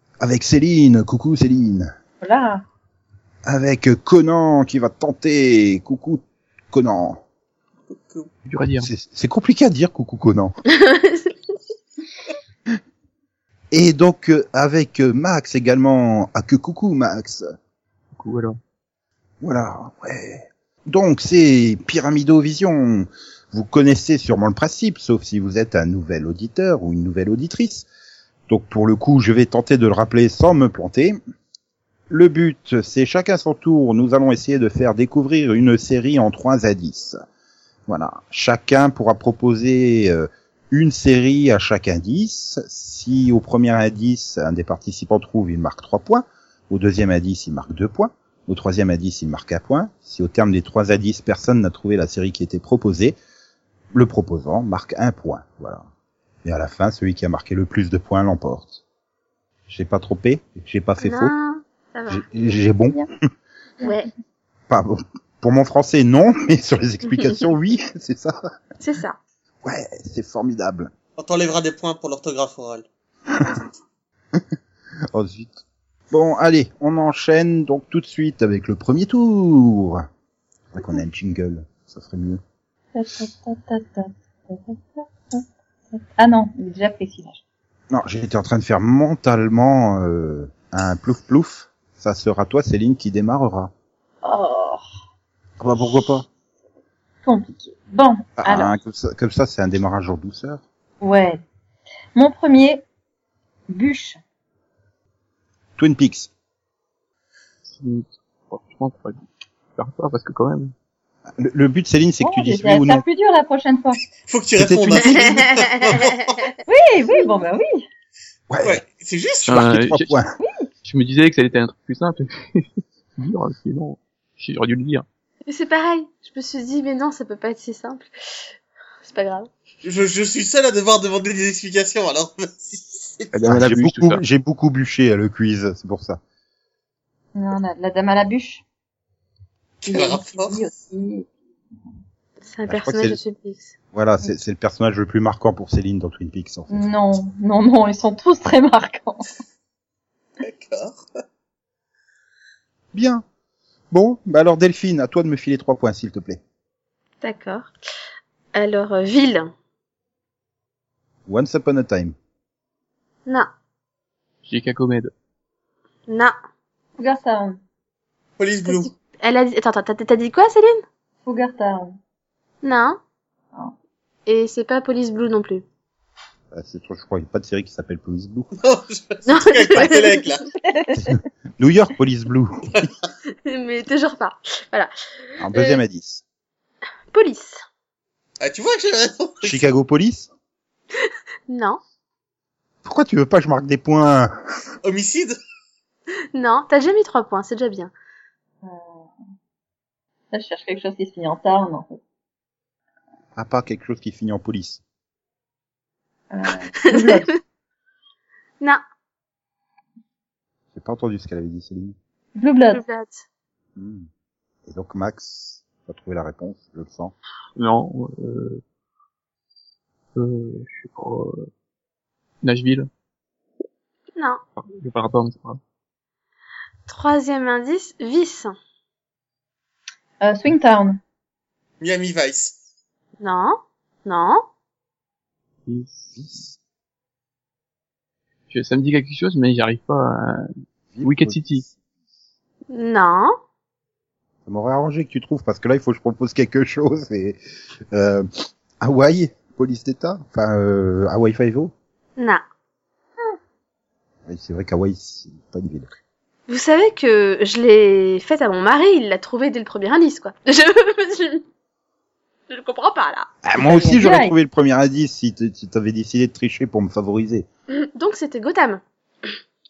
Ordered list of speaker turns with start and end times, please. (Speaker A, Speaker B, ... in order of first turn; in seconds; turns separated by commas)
Speaker A: 0.2-1.9, Speaker B: 2.2-2.6, Speaker A: 3.5-7.2, Speaker C: 7.9-8.3, Speaker D: 8.5-8.9, Speaker A: 8.8-10.6, Speaker E: 10.7-11.3, Speaker A: 13.7-17.5, Speaker D: 18.1-18.6, Speaker A: 19.4-27.9, Speaker A: 28.5-31.2, Speaker A: 32.1-37.2, Speaker A: 37.9-53.2, Speaker A: 53.9-55.9, Speaker A: 56.4-58.8, Speaker A: 59.7-61.3, Speaker E: 61.0-62.2, Speaker A: 62.1-63.0, Speaker E: 63.8-64.1, Speaker A: 64.7-68.6, Speaker E: 68.8-69.2, Speaker A: 69.6-70.9, Speaker C: 71.2-72.8, Speaker A: 73.4-73.6, Speaker A: 75.1-80.1, Speaker A: 80.7-82.4, Speaker B: 83.0-87.4, Speaker A: 87.9-93.7, Speaker B: 94.2-94.8, Speaker A: 95.6-96.3, Speaker B: 97.2-98.7, Speaker A: 98.4-100.6, Speaker B: 101.0-101.4, Speaker B: 102.2-102.8, Speaker B: 103.7-104.2, Speaker A: 105.8-106.3, Speaker D: 107.7-109.2, Speaker D: 109.8-110.7, Speaker A: 111.4-113.0, Speaker B: 112.2-114.0, Speaker C: 114.3-116.5, Speaker A: 114.6-115.2, Speaker B: 116.7-117.9, Speaker A: 118.5-118.8, Speaker C: 118.6-119.7, Speaker D: 119.5-120.2, Speaker A: 119.5-120.3, Speaker B: 120.4-120.7, Speaker D: 120.8-125.0, Speaker E: 125.5-129.5, Speaker C: 129.8-133.3, Speaker D: 133.3-134.2, Speaker A: 133.5-136.2, Speaker B: 137.3-138.6, Speaker C: 139.8-140.6, Speaker B: 139.9-141.3, Speaker E: 142.4-143.8, Speaker A: 142.7-143.2, Speaker A: 143.9-147.2, Speaker B: 146.7-149.3, Speaker C: 150.4-151.0, Speaker A: 152.9-153.2, Speaker A: 153.9-156.4, Speaker E: 157.2-157.7, Speaker E: 158.5-159.5, Speaker A: 161.3-162.2, Speaker D: 164.4-165.1, Speaker E: 166.1-166.3, Speaker B: 167.0-167.6, Speaker C: 168.4-168.9, Speaker E: 168.7-170.8, Speaker B: 171.2-172.0, Speaker E: 172.6-173.0, Speaker E: 174.3-175.6, Speaker A: 176.5-178.5, Speaker C: 178.6-180.5, Speaker E: 179.2-180.3, Speaker B: 180.7-181.2, Speaker A: 180.9-182.9, Speaker E: 183.4-185.8, Speaker A: 185.4-186.2, Speaker E: 187.1-187.6, Speaker C: 188.4-189.6, Speaker A: 189.4-190.3, Speaker E: 191.0-191.8, Speaker A: 192.8-194.4, Speaker C: 194.8-195.4, Speaker E: 196.3-197.9, Speaker B: 198.6-199.1, Speaker B: 200.3-202.0, Speaker A: 203.4-204.8, Speaker B: 206.3-207.4, Speaker E: 206.8-207.2, Speaker A: 210.7-212.0, Speaker B: 212.4-212.8, Speaker E: 212.7-213.2, Speaker A: 213.8-214.1, Speaker A: 214.7-217.1, Speaker D: 217.6-218.6, Speaker D: 220.2-221.5, Speaker D: 222.4-222.9, Speaker E: 224.2-224.4, Speaker D: 224.6-225.6, Speaker E: 226.9-228.6, Speaker B: 230.2-231.0, Speaker C: 231.8-232.5, Speaker E: 233.2-234.4, Speaker D: 235.7-236.2, Speaker A: 236.2-236.6, Speaker D: 238.5-240.5, Speaker A: 240.9-241.7, Speaker D: 241.0-241.7, Speaker E: 242.7-243.4, Speaker A: 244.5-247.4, Speaker A: 247.9-248.3, Speaker A: 248.8-251.7, Speaker E: 252.2-252.4, Speaker A: 254.3-255.9, Speaker E: 256.5-261.4, Speaker E: 262.5-263.3, Speaker A: 263.4-267.5, Speaker B: 263.6-264.4, Speaker E: 267.8-268.8